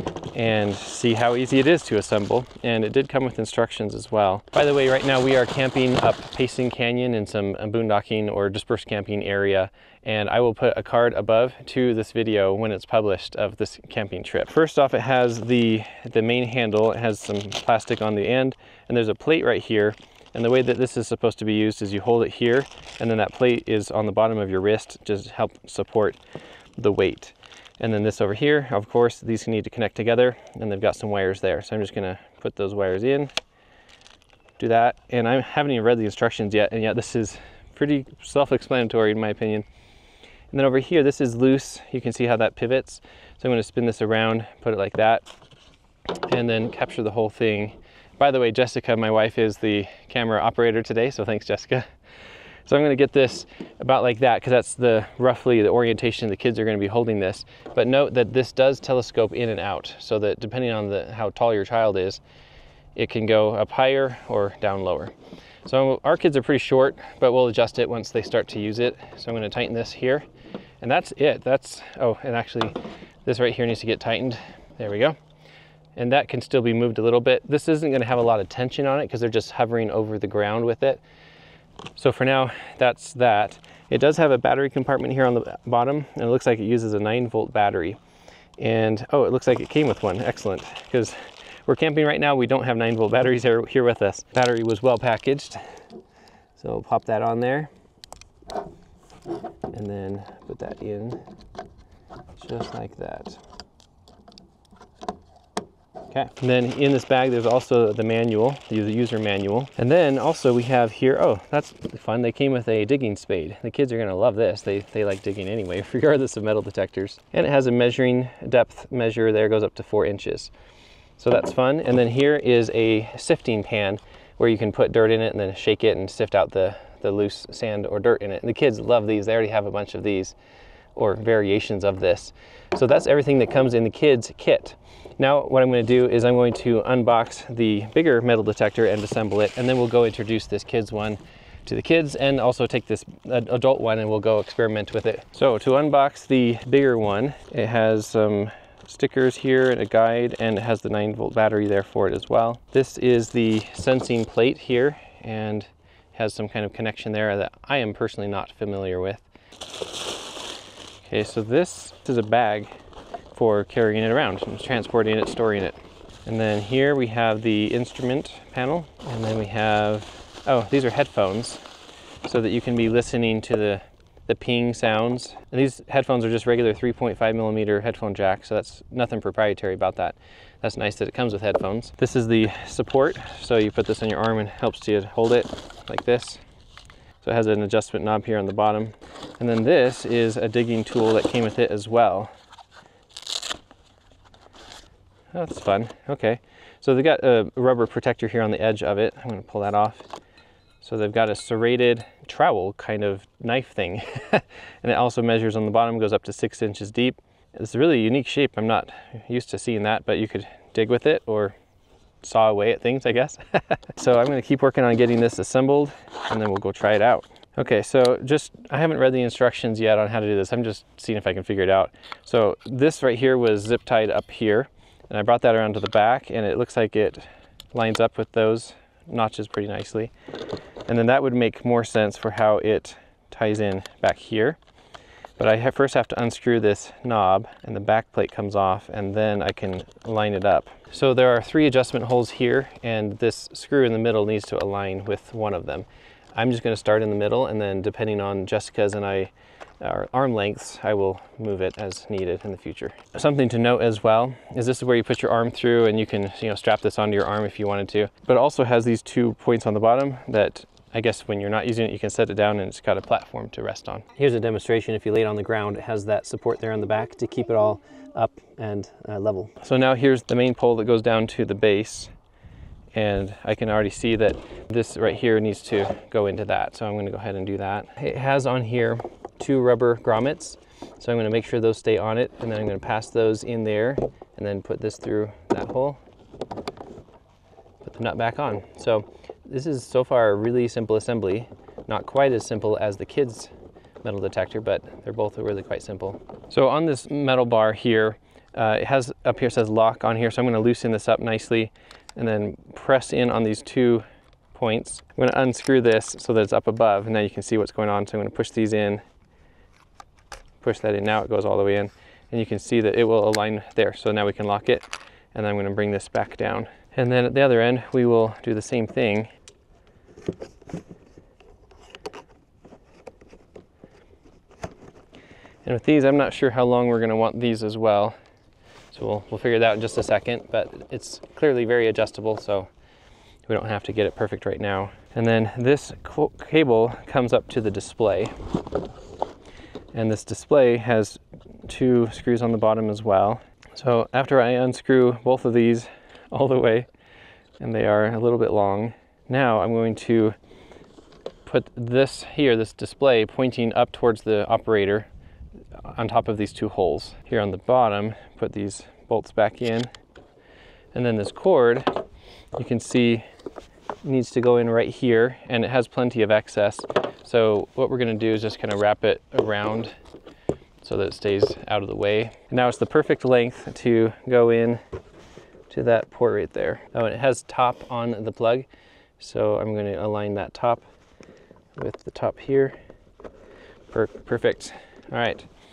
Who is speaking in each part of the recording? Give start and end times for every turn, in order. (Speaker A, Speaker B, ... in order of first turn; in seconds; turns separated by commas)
Speaker A: 0.3-26.2, Speaker A: 26.8-33.3, Speaker A: 34.6-39.6, Speaker A: 40.5-45.2, Speaker A: 46.3-51.9, Speaker A: 52.7-62.2, Speaker A: 62.9-65.1, Speaker A: 65.6-70.3, Speaker A: 70.8-75.2, Speaker A: 76.0-81.0, Speaker A: 82.0-88.0, Speaker A: 88.6-95.6, Speaker A: 96.6-97.7, Speaker A: 99.7-101.2, Speaker A: 102.4-103.4, Speaker A: 106.1-120.5, Speaker A: 121.2-130.3, Speaker A: 131.0-159.2, Speaker A: 161.0-162.7, Speaker A: 163.3-171.6, Speaker A: 172.2-186.4, Speaker A: 187.2-192.3, Speaker A: 195.3-200.1, Speaker A: 200.8-211.6, Speaker A: 212.2-230.1, Speaker A: 230.9-234.6, Speaker A: 235.4-272.1, Speaker A: 272.9-286.0, Speaker A: 287.8-293.5, Speaker A: 294.0-309.0, Speaker A: 310.6-319.3, Speaker A: 325.6-328.2, Speaker A: 328.9-332.7, Speaker A: 333.5-338.4, Speaker A: 339.9-346.9, Speaker A: 347.6-350.4, Speaker A: 351.4-355.1, Speaker A: 355.8-359.9, Speaker A: 360.9-362.0, Speaker A: 362.6-363.2, Speaker A: 364.0-370.0, Speaker A: 370.8-374.8, Speaker A: 375.7-378.7, Speaker A: 379.2-380.8, Speaker A: 381.8-382.8, Speaker A: 383.9-385.5